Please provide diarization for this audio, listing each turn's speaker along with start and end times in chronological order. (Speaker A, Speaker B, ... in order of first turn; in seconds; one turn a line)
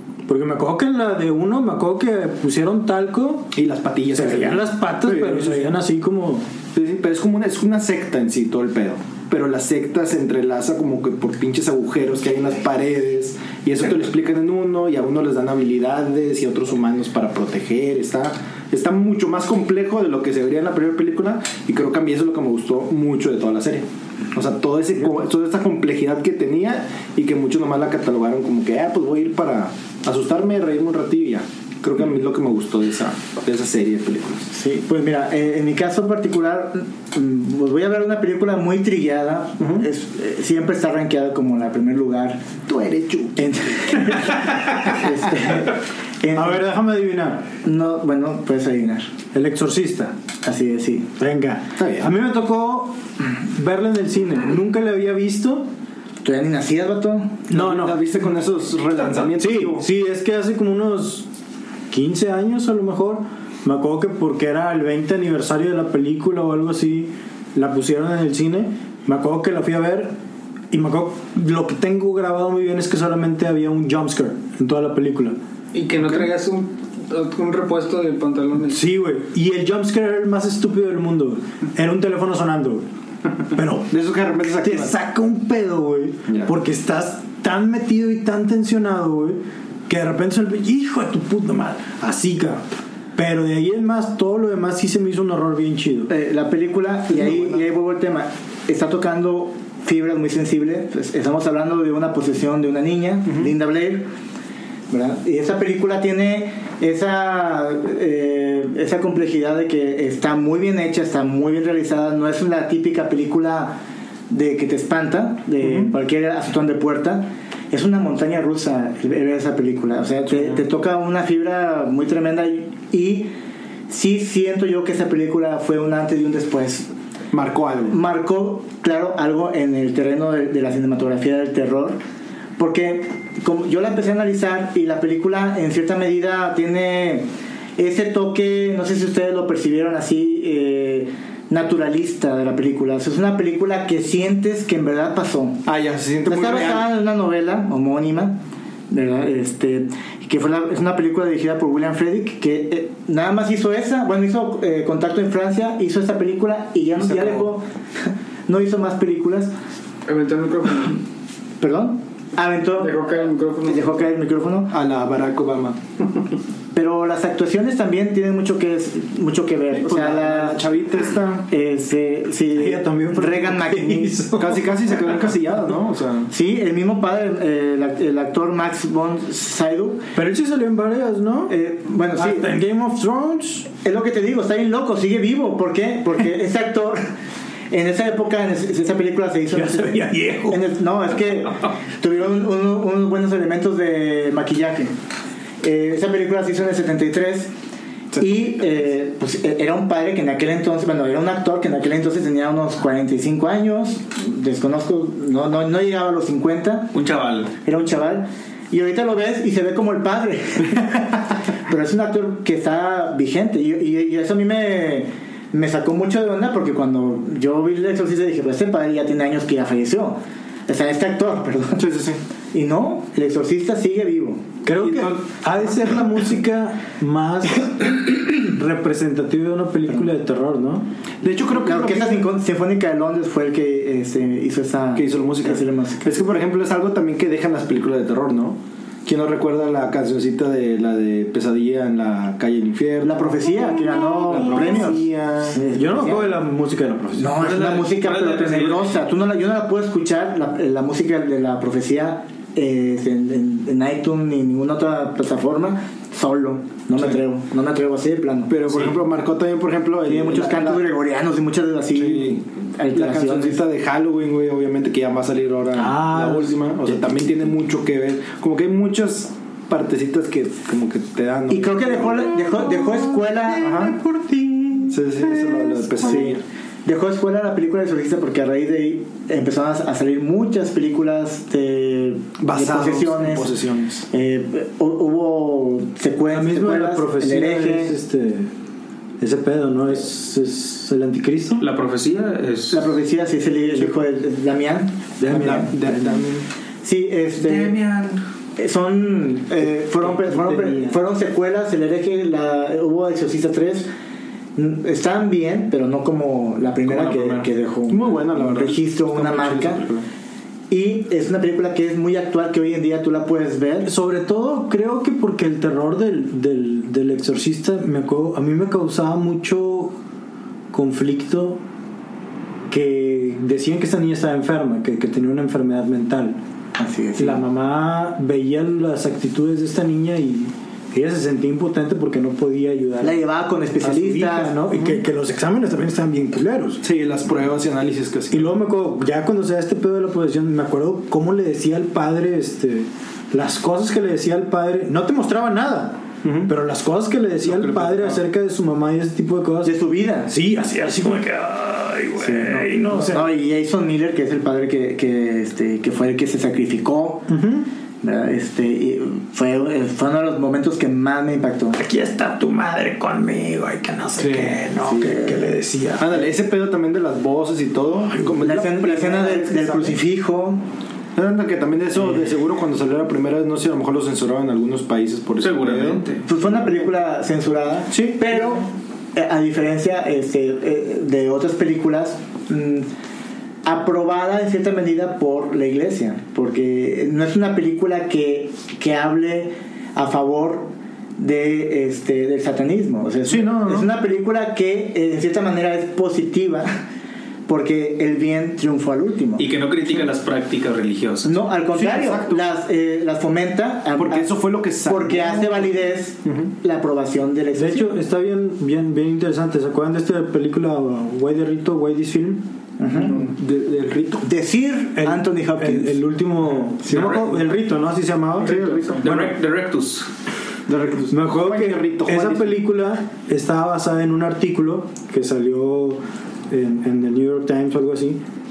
Speaker A: 0.2-3.5
Speaker B: 3.5-5.7
Speaker A: 4.1-6.5
Speaker B: 6.7-34.5
Speaker C: 34.5-42.4
Speaker B: 39.6-39.9
Speaker B: 42.6-43.5
Speaker C: 43.4-46.6
Speaker A: 46.3-47.5
Speaker C: 47.6-49.1
Speaker A: 49.3-50.1
Speaker C: 50.4-51.1
Speaker A: 51.2-55.7
Speaker B: 51.8-52.1
Speaker C: 56.2-57.4
Speaker A: 57.5-58.0
Speaker B: 57.5-59.9
Speaker A: 59.3-61.3
Speaker A: 61.9-70.2
Speaker A: 70.7-75.4
Speaker D: 75.7-78.8
Speaker A: 78.6-82.9
Speaker A: 83.5-92.6
Speaker B: 83.9-84.9
Speaker A: 93.2-96.1
Speaker C: 96.1-104.1
Speaker B: 97.1-97.6
Speaker B: 103.3-103.5
Speaker C: 104.9-123.3
Speaker B: 115.6-115.9
Speaker B: 120.3-120.6
Speaker C: 123.9-126.9
Speaker B: 127.3-128.0
Speaker C: 127.9-132.0
Speaker C: 132.6-145.6
Speaker B: 145.6-146.8
Speaker C: 146.2-148.4
Speaker C: 148.9-159.5
Speaker B: 157.0-157.5
Speaker D: 160.1-161.0
Speaker C: 161.6-163.1
Speaker D: 162.8-164.0
Speaker C: 163.6-164.7
Speaker B: 164.7-165.8
Speaker C: 166.7-170.6
Speaker B: 169.7-171.5
Speaker C: 171.5-174.2
Speaker A: 172.5-175.3
Speaker B: 174.3-176.3
Speaker C: 176.3-180.1
Speaker A: 180.1-181.5
Speaker C: 181.5-182.6
Speaker A: 182.1-183.7
Speaker C: 183.8-187.1
Speaker C: 187.7-194.9
Speaker A: 189.5-190.6
Speaker C: 195.6-197.5
Speaker C: 198.2-206.9
Speaker E: 206.9-207.5
Speaker C: 207.6-211.1
Speaker C: 211.7-221.8
Speaker B: 221.8-222.2
Speaker C: 222.5-224.4
Speaker A: 224.6-230.8
Speaker B: 224.7-225.2
Speaker B: 231.2-232.2
Speaker C: 231.6-236.2
Speaker B: 234.9-245.6
Speaker C: 243.0-246.4
Speaker A: 245.7-247.4
Speaker C: 247.1-258.5
Speaker E: 247.3-249.0
Speaker B: 258.5-260.8
Speaker C: 260.1-263.6
Speaker B: 261.9-262.4
Speaker B: 262.9-272.2
Speaker A: 265.7-266.9
Speaker C: 271.5-273.7
Speaker A: 272.2-276.3
Speaker B: 273.6-273.9
Speaker B: 274.9-276.4
Speaker C: 276.0-283.5
Speaker B: 282.4-284.1
Speaker C: 284.1-287.9
Speaker A: 286.3-288.5
Speaker A: 289.2-291.6
Speaker E: 291.6-293.0
Speaker C: 292.7-295.7
Speaker A: 295.2-296.2
Speaker B: 295.2-296.5
Speaker C: 296.8-297.8
Speaker E: 297.4-298.2
Speaker C: 298.6-303.9
Speaker A: 300.1-300.9
Speaker C: 304.6-309.8
Speaker B: 306.8-310.1
Speaker C: 310.7-313.9
Speaker A: 313.8-319.9
Speaker A: 320.7-321.6
Speaker A: 322.7-326.4
Speaker C: 326.8-327.4
Speaker A: 327.2-333.2
Speaker C: 333.0-334.6
Speaker A: 333.8-336.8
Speaker B: 334.7-335.0
Speaker B: 336.8-338.5
Speaker A: 338.3-349.7
Speaker B: 346.2-346.5
Speaker B: 347.4-348.2
Speaker C: 349.6-350.3
Speaker A: 350.3-353.3
Speaker C: 352.2-357.3
Speaker A: 357.3-357.7
Speaker C: 358.0-361.8
Speaker A: 361.8-366.3
Speaker B: 364.2-365.1
Speaker C: 365.0-365.4
Speaker B: 366.0-370.0
Speaker A: 368.1-368.3
Speaker C: 368.4-370.6
Speaker B: 371.1-376.0
Speaker E: 375.4-376.3
Speaker C: 376.2-382.9
Speaker B: 377.9-378.6
Speaker C: 383.6-396.7
Speaker B: 393.3-393.9
Speaker C: 397.5-399.4
Speaker E: 399.4-401.4
Speaker C: 401.2-404.3
Speaker B: 401.7-402.5
Speaker B: 404.0-406.5
Speaker C: 404.8-407.9
Speaker A: 407.5-412.5
Speaker C: 412.8-413.3
Speaker B: 413.0-414.2
Speaker C: 414.2-416.0
Speaker A: 414.9-419.3
Speaker B: 416.8-417.3
Speaker E: 416.9-417.2
Speaker D: 418.4-419.0
Speaker B: 418.4-418.9
Speaker E: 419.0-420.1
Speaker B: 420.7-422.6
Speaker A: 421.1-428.2